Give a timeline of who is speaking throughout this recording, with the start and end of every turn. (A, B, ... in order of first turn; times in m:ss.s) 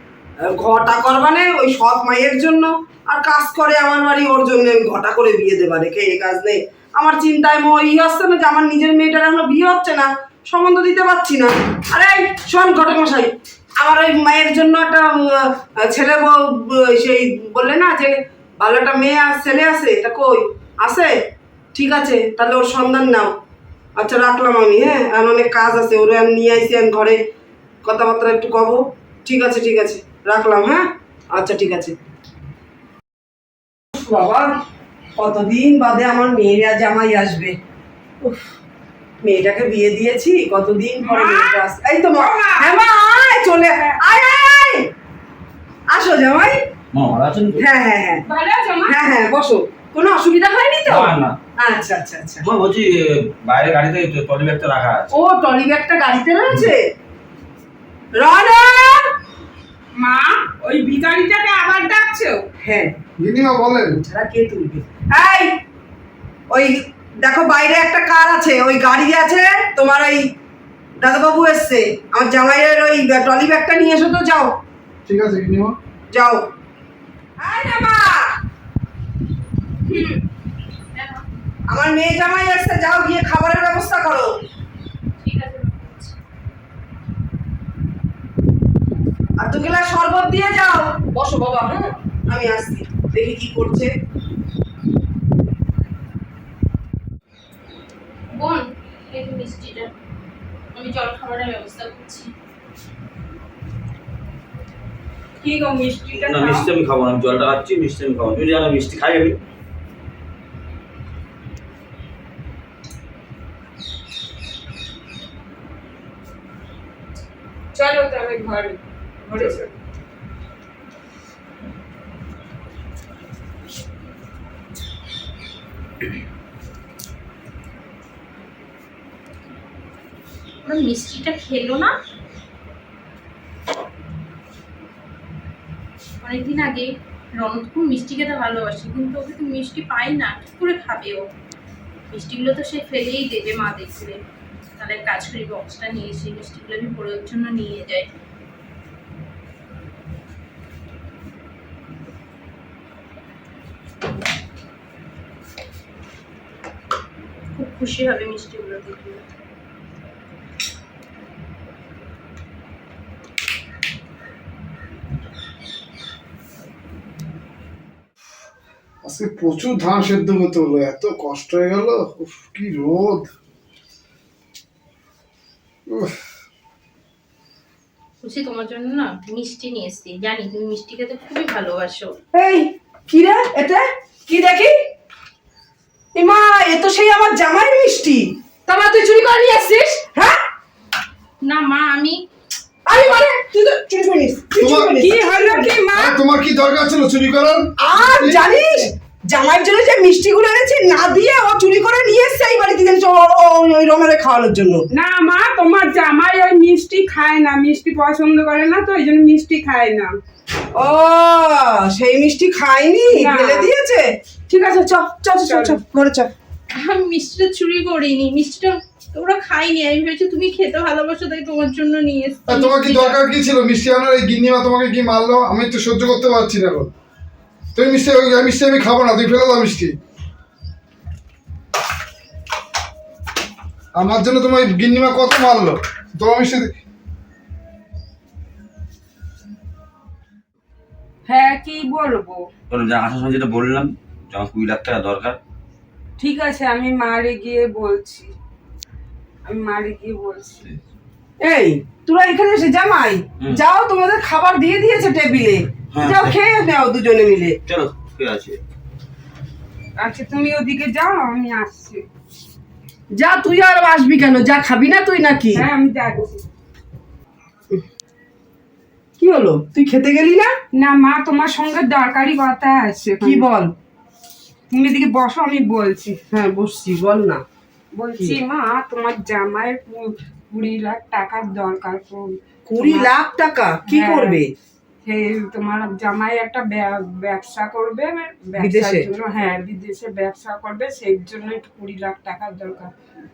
0:00.4-0:21.1 A
0:21.7-0:23.3 A
0:24.0-0:27.2 A
0:27.8-0:31.9 A
0:33.9-0:34.5 A
0:35.2-0:37.6 A
0:38.2-0:38.5 A
0:39.2-0:44.9 A
0:41.0-0:41.6 B
0:42.2-0:42.7 B
0:45.9-0:46.6 A
0:46.9-0:47.6 C
0:47.6-0:48.2 A
0:48.2-0:49.0 B
0:48.9-0:52.4 A
0:50.9-0:51.4 C
0:52.4-0:55.1 C
0:55.1-0:56.9 A
0:58.2-0:59.1 A
1:00.0-1:02.4 B
1:02.6-1:03.0 A
1:03.2-1:04.0 D
1:03.9-1:05.5 A
1:06.5-1:10.3 A
1:11.0-1:14.6 A
1:15.0-1:15.8 D
1:16.1-1:16.5 A
1:17.4-1:18.4 A
1:19.8-1:20.2 E
1:20.9-1:21.2 E
1:21.7-1:24.3 A
1:25.2-1:26.1 E
1:29.4-1:33.9 A
1:38.3-1:39.9 E
1:40.7-1:42.3 E
1:45.4-1:46.7 B
1:46.2-1:49.4 C
1:57.7-1:59.7 B
2:10.6-2:11.9 E
2:16.2-2:21.3 E
2:22.1-2:24.2 E
2:24.8-2:28.1 E
2:37.5-2:39.2 E
2:49.0-2:53.3 D
2:55.9-2:56.2 D
2:58.2-3:02.2 E
3:02.3-3:04.7 A
3:06.1-3:10.4 A
3:11.4-3:12.2 E
3:12.8-3:15.8 A
3:14.6-3:15.0 D
3:15.0-3:16.1 B
3:15.9-3:18.6 D
3:17.8-3:24.8 A
3:24.9-3:30.1 B
3:30.7-3:36.3 A
3:33.1-3:33.7 B
3:35.4-3:35.8 B
3:36.7-3:43.2 E
3:42.5-3:46.9 D
3:47.7-3:50.0 D
3:54.0-3:56.8 D
4:01.3-4:02.4 B
4:02.7-4:05.4 C
4:06.2-4:08.3 B
4:09.4-4:10.6 B
4:11.4-4:17.6 A
4:15.9-4:16.3 C
4:17.7-4:18.6 C
4:20.0-4:22.0 B
4:23.2-4:25.6 A
4:25.5-4:26.4 B
4:29.2-4:30.5 A
4:30.7-4:33.4 B
4:33.2-4:33.7 A
4:34.7-4:36.2 B
4:36.3-4:37.4 A
4:37.9-4:43.1 B
4:42.7-4:44.5 A
4:43.9-4:44.4 B
4:45.0-4:52.9 B
4:48.6-4:49.1 A